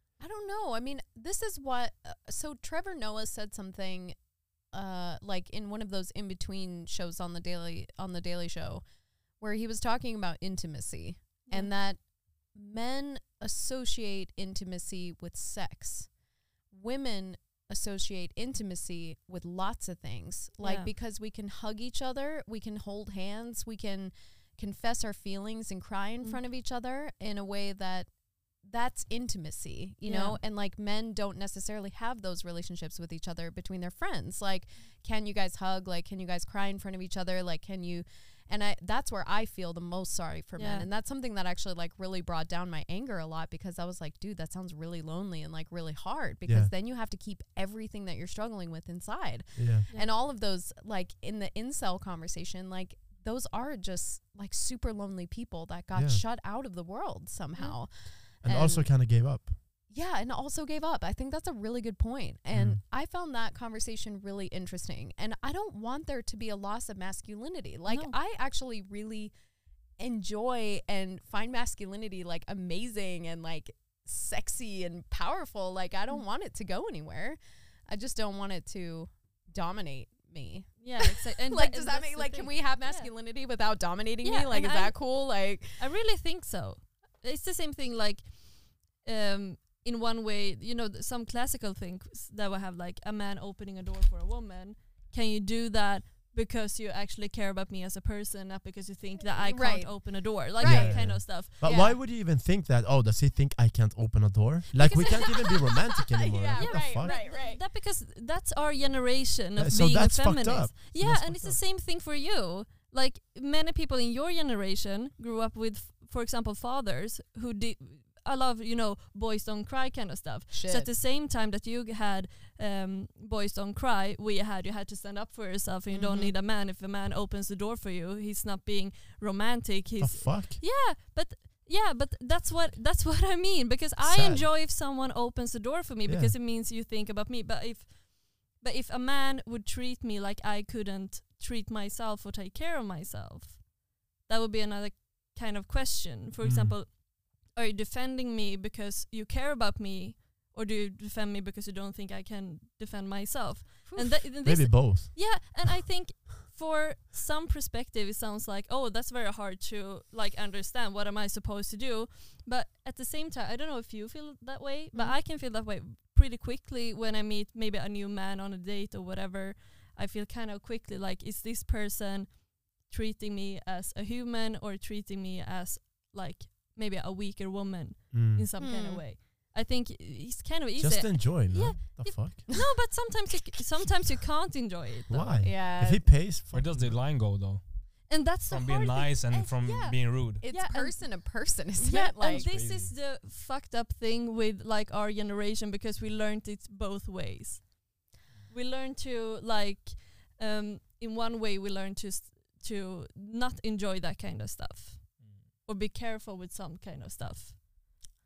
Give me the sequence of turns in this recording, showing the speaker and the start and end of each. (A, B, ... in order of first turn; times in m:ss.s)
0:00.2-0:16.2 A
0:11.5-0:11.7 B
0:16.7-0:58.9 A
0:20.6-0:20.9 B
0:30.0-0:30.4 B
0:40.6-0:40.9 B
0:46.5-0:46.7 C
0:49.6-0:49.9 C
0:56.0-0:56.2 C
0:57.6-0:57.8 B
0:58.4-0:59.5 C
0:59.9-1:09.4 A
1:02.5-1:02.8 C
1:07.9-1:08.2 B
1:10.0-1:25.9 A
1:20.8-1:23.1 B
1:24.2-1:41.6 B
1:39.2-1:42.0 A
1:40.6-1:47.2 C
1:44.7-1:45.5 B
1:46.2-1:47.6 A
1:46.6-3:05.5 B
1:49.6-1:51.6 C
2:00.5-2:00.9 A
2:05.9-2:06.3 A
2:10.0-2:10.6 C
2:14.0-2:14.5 C
2:16.1-2:16.4 C
2:26.4-2:26.8 C
2:33.9-2:34.3 A
2:34.4-2:35.8 C
2:44.9-2:45.2 A
2:58.1-2:58.5 C
2:58.6-2:59.1 A
3:00.8-3:02.7 C
3:05.1-3:07.1 C
3:05.4-3:06.2 A
3:06.5-3:10.4 D
3:08.1-3:27.6 B
3:10.4-3:12.7 A
3:12.2-3:13.0 D
3:25.2-3:25.5 D